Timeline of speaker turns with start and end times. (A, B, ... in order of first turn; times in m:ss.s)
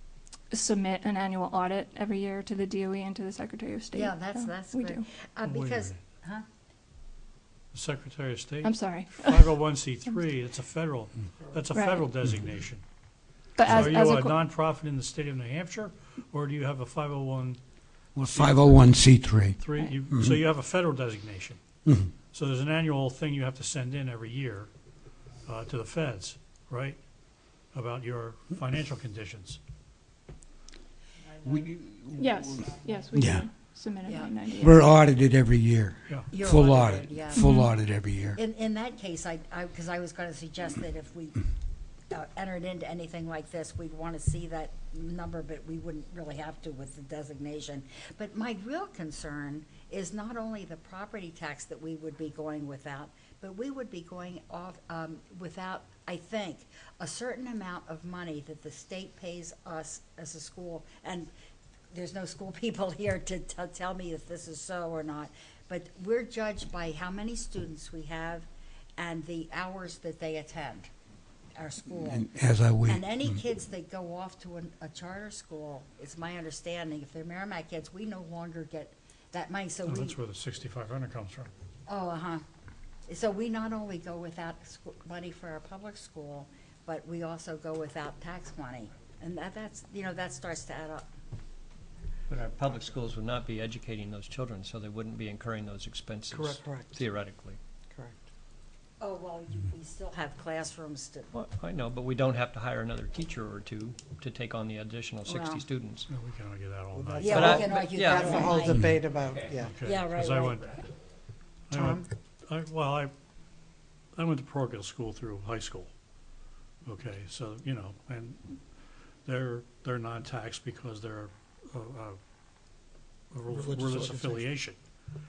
0:00.5-0:05.1 A
0:03.9-0:06.4 B
0:05.4-0:05.9 C
0:07.7-0:12.8 C
0:08.6-0:09.4 A
0:11.7-0:12.1 A
0:13.6-0:14.4 A
0:13.6-0:17.6 C
0:18.2-0:20.4 D
0:18.2-0:21.6 C
0:21.8-0:22.1 D
0:22.3-0:24.7 C
0:25.4-0:27.0 C
0:27.7-0:29.6 C
0:31.4-0:32.5 D
0:32.2-0:34.9 A
0:33.1-0:33.5 D
0:34.1-0:34.3 B
0:34.6-0:38.4 D
0:36.3-0:37.5 B
0:37.4-0:37.7 A
0:38.4-0:41.4 B
0:42.1-1:01.3 B
1:01.9-1:08.5 B
1:09.0-1:10.9 B
1:11.6-1:12.3 B
1:12.0-1:13.2 D
1:12.9-1:20.2 B
1:19.8-1:21.5 C
1:21.9-1:22.4 B
1:23.1-1:31.1 B
1:32.3-1:37.6 E
1:36.3-1:37.0 F
1:39.0-1:41.3 B
1:41.3-1:46.1 E
1:45.2-1:45.7 B
1:46.1-1:47.4 C
1:46.9-1:49.7 F
1:47.2-1:49.1 B
1:47.3-1:48.4 E
1:49.6-1:50.9 C
1:49.8-1:50.7 B
1:51.7-1:53.1 C
1:51.7-1:52.0 F
1:54.2-1:55.9 C
1:56.8-1:58.7 C
1:59.2-2:02.2 C
2:03.3-2:04.8 C
2:03.5-2:04.5 F